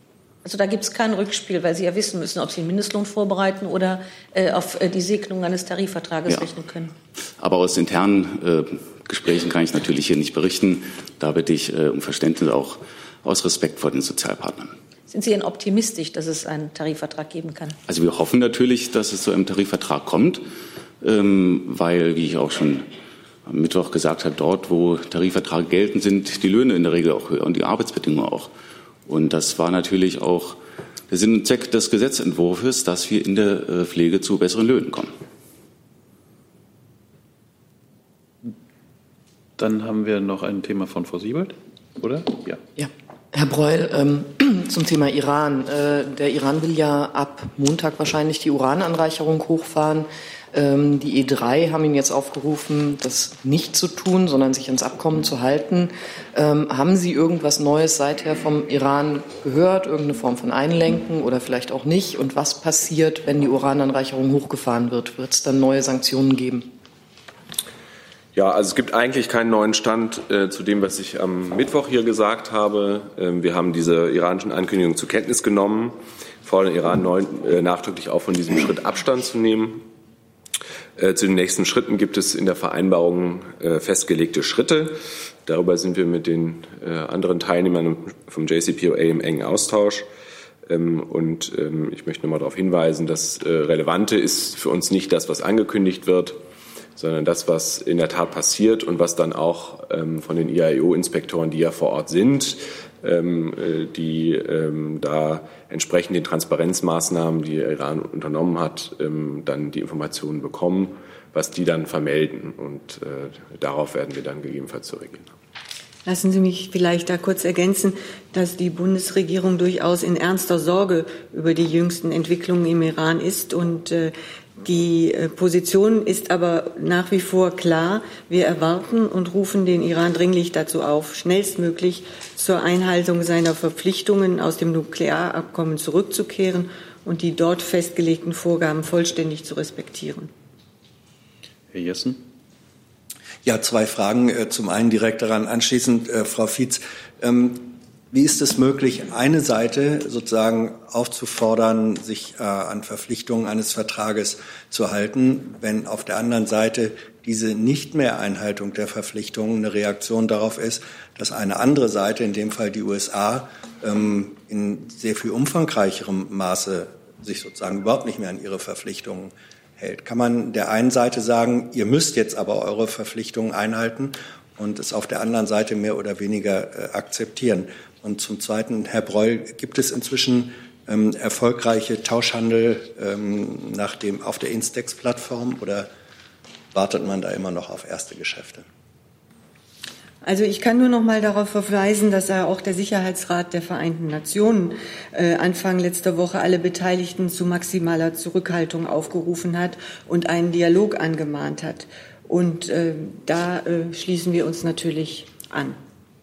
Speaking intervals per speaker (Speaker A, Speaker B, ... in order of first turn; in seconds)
Speaker A: 0.4-6.9, 15.1-17.8
Speaker B: 7.4-14.7, 17.9-20.4, 21.0-22.9, 23.5-28.5, 29.1-30.6, 31.1-35.1
Speaker C: 39.6-42.6, 141.7-142.2
Speaker D: 42.8-66.7
Speaker E: 68.3-79.8, 81.0-90.0, 90.7-96.4, 97.0-115.3
Speaker F: 116.1-140.3, 190.2-205.8
Speaker G: 143.4-185.9, 186.7-188.7